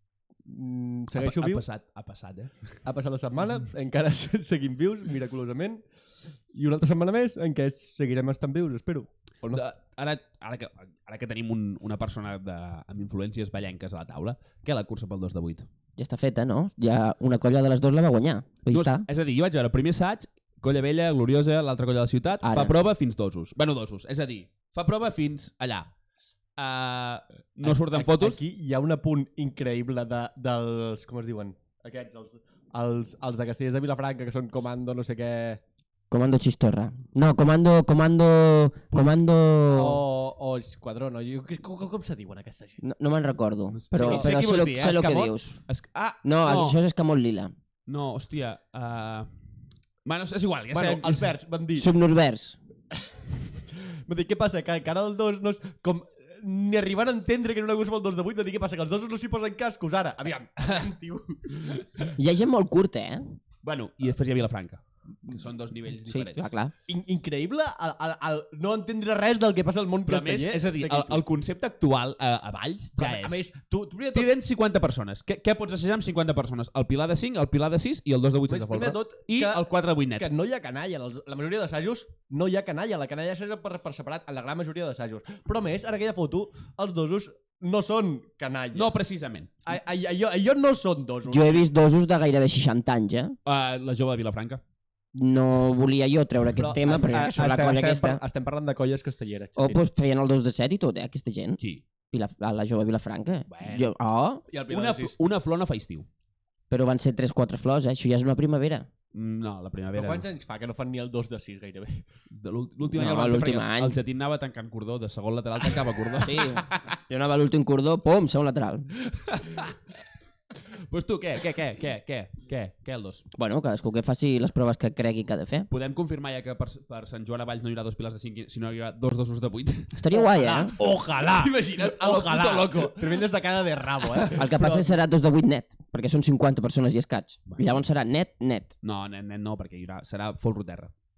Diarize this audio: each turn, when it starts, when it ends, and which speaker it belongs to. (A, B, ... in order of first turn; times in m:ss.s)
0:00.4-0:01.6 A
0:01.2-0:02.6 B
0:02.8-0:05.8 A
0:06.5-0:09.6 A
0:09.5-0:15.7 B
0:16.0-0:19.1 C
0:18.7-0:25.9 B
0:22.4-0:22.7 C
0:26.6-0:28.4 B
0:27.6-0:35.6 A
0:36.1-0:40.0 C
0:39.7-0:42.8 A
0:42.8-0:45.6 C
0:43.8-0:46.8 B
0:44.0-0:44.8 A
0:46.2-0:47.5 C
0:47.9-0:49.3 B
0:50.0-0:51.3 B
0:50.7-0:51.9 A
0:51.8-0:52.6 C
0:53.7-1:01.8 A
1:02.2-1:03.3 C
1:03.6-1:06.5 B
1:06.1-1:06.7 C
1:06.9-1:11.2 A
1:10.1-1:13.4 B
1:13.0-1:14.3 A
1:14.1-1:20.3 B
1:18.5-1:28.9 A
1:28.7-1:29.5 B
1:29.6-1:31.6 A
1:31.3-1:33.4 C
1:33.5-1:34.6 B
1:35.2-1:38.2 C
1:36.6-1:39.8 A
1:39.6-1:41.6 C
1:42.1-1:44.4 C
1:43.5-1:43.9 B
1:44.5-1:45.2 A
1:44.7-1:46.1 B
1:46.7-1:48.9 C
1:49.1-1:50.2 B
1:50.0-1:52.0 A
1:52.3-1:56.8 B
1:52.9-1:54.0 C
1:56.2-1:58.9 C
1:59.1-1:59.8 B
2:00.7-2:03.2 B
2:03.4-2:05.7 C
2:05.7-2:10.0 B
2:09.9-2:10.7 C
2:10.2-2:14.9 A
2:11.2-2:13.2 B
2:14.0-2:14.4 B
2:14.4-2:18.7 C
2:17.5-2:17.8 B
2:18.8-2:20.9 B